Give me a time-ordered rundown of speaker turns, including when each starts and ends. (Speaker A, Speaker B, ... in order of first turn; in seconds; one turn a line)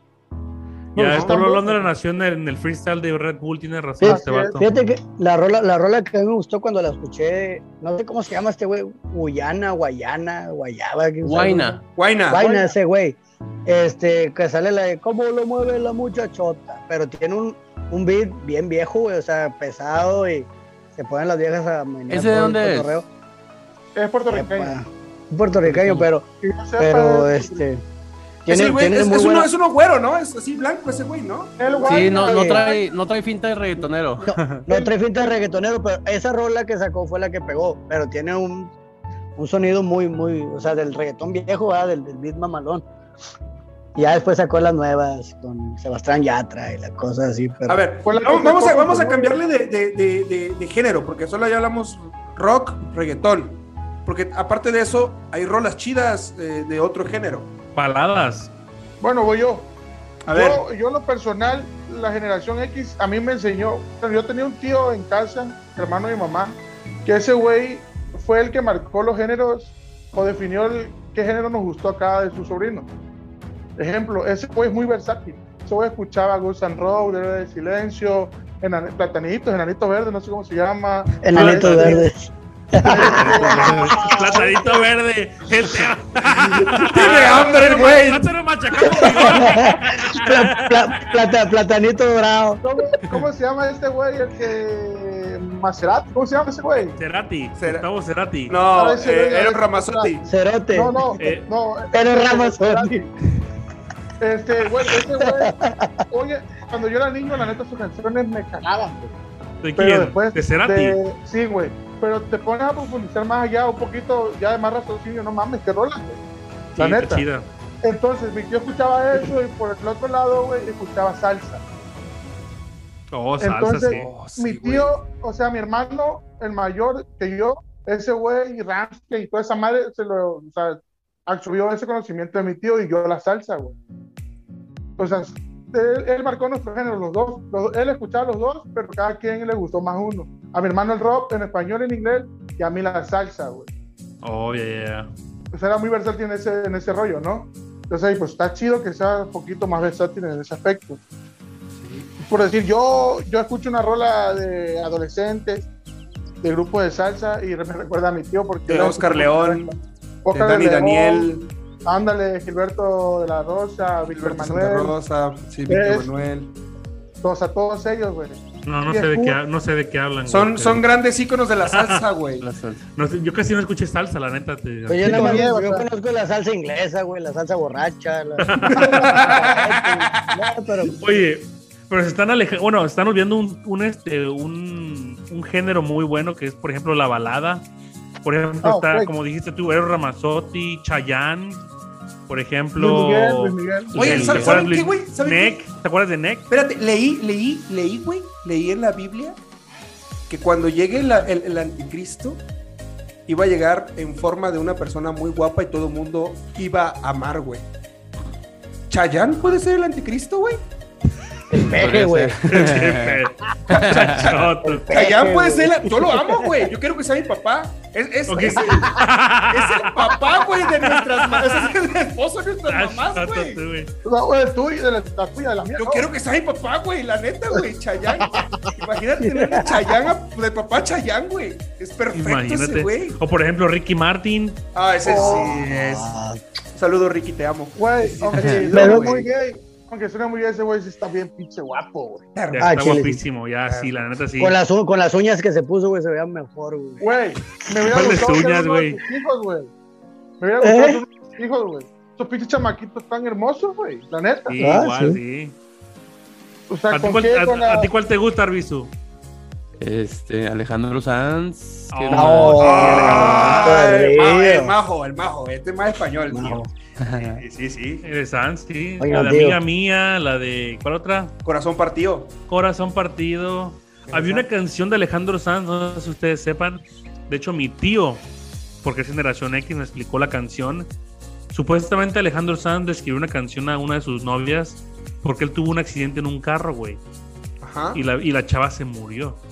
Speaker A: 0.9-1.9
Speaker B: 0.9-4.6
Speaker C: 1.1-1.4
Speaker D: 4.0-23.1
Speaker A: 4.0-4.6
Speaker E: 11.2-11.8
Speaker C: 11.9-12.5
Speaker A: 12.4-12.7
Speaker E: 22.1-23.1
Speaker A: 23.9-24.8
Speaker D: 24.3-26.3
Speaker E: 25.6-26.1
Speaker A: 26.4-27.6
Speaker D: 26.8-27.8
Speaker D: 28.4-29.5
Speaker C: 28.5-32.0
Speaker A: 31.6-32.8
Speaker E: 31.9-34.4
Speaker D: 32.2-32.7
Speaker D: 34.2-38.7
Speaker A: 34.7-35.3
Speaker D: 39.4-42.9
Speaker D: 44.0-47.8
Speaker C: 47.7-57.5
Speaker A: 48.0-49.4
Speaker B: 57.8-58.5
Speaker A: 59.0-59.7
Speaker C: 60.2-60.6
Speaker A: 60.3-72.9
Speaker A: 73.8-82.1
Speaker D: 81.2-84.4
Speaker B: 81.3-82.0
Speaker A: 82.8-84.8
Speaker B: 83.0-91.0
Speaker C: 86.3-88.3
Speaker D: 88.8-92.6
Speaker A: 92.6-97.0
Speaker B: 97.0-98.6
Speaker C: 97.6-97.8
Speaker C: 98.5-100.3
Speaker A: 98.7-100.1
Speaker D: 100.3-101.2
Speaker A: 100.7-103.1
Speaker B: 101.2-101.5
Speaker D: 101.9-103.0
Speaker A: 104.2-105.6
Speaker D: 105.2-106.0
Speaker A: 106.1-109.1
Speaker B: 109.6-111.0
Speaker A: 109.8-116.2
Speaker A: 116.8-117.2
Speaker B: 116.8-117.5
Speaker A: 117.8-121.6
Speaker B: 123.1-124.1
Speaker A: 123.4-133.8
Speaker C: 123.9-124.9
Speaker A: 135.0-143.7
Speaker B: 144.2-145.1
Speaker A: 145.5-151.0
Speaker C: 151.8-152.1
Speaker A: 152.2-155.7
Speaker A: 156.4-161.3
Speaker C: 158.7-159.7
Speaker C: 160.3-161.5
Speaker A: 161.8-164.9
Speaker C: 164.1-166.6
Speaker A: 165.7-166.1
Speaker A: 167.2-169.4
Speaker B: 168.6-170.9
Speaker C: 170.3-172.4
Speaker B: 171.7-172.0
Speaker E: 172.4-172.9
Speaker B: 172.9-175.4
Speaker D: 174.9-181.1
Speaker A: 175.0-175.9
Speaker B: 178.4-179.4
Speaker C: 178.7-180.3
Speaker B: 181.0-187.7
Speaker B: 188.2-191.6
Speaker A: 188.6-189.1
Speaker B: 192.3-196.5
Speaker A: 192.8-194.5
Speaker C: 193.9-195.6
Speaker C: 196.5-199.4
Speaker C: 200.3-202.4
Speaker C: 203.3-207.7
Speaker C: 208.9-210.6
Speaker D: 211.5-212.6
Speaker E: 211.7-214.3
Speaker B: 212.5-214.9
Speaker C: 213.7-223.6
Speaker D: 214.6-216.7
Speaker B: 218.3-220.1
Speaker B: 220.8-221.7
Speaker B: 222.7-223.9
Speaker A: 224.1-226.1
Speaker C: 225.8-233.2
Speaker D: 229.2-229.9
Speaker B: 232.1-234.6
Speaker C: 234.7-236.1
Speaker A: 235.0-235.6
Speaker D: 235.1-236.4
Speaker C: 236.7-239.3
Speaker A: 237.8-242.2
Speaker D: 238.4-239.2
Speaker C: 242.3-242.7
Speaker B: 242.5-244.6
Speaker D: 242.6-243.2
Speaker C: 243.7-243.9
Speaker D: 244.4-247.0
Speaker A: 247.0-249.7
Speaker B: 247.8-249.0
Speaker A: 250.4-254.6
Speaker D: 250.6-251.0
Speaker B: 254.5-255.6
Speaker D: 254.6-255.2
Speaker A: 256.7-257.9
Speaker B: 256.9-258.9
Speaker E: 259.8-262.7
Speaker B: 261.9-263.8
Speaker D: 262.1-264.8
Speaker C: 262.6-268.1
Speaker D: 266.3-266.7
Speaker E: 267.0-267.4
Speaker B: 268.0-271.3
Speaker D: 269.0-269.6
Speaker C: 271.4-272.3
Speaker B: 272.5-278.2
Speaker C: 274.1-274.4
Speaker B: 278.8-280.9
Speaker B: 281.5-287.0
Speaker C: 287.6-288.0
Speaker B: 287.9-289.4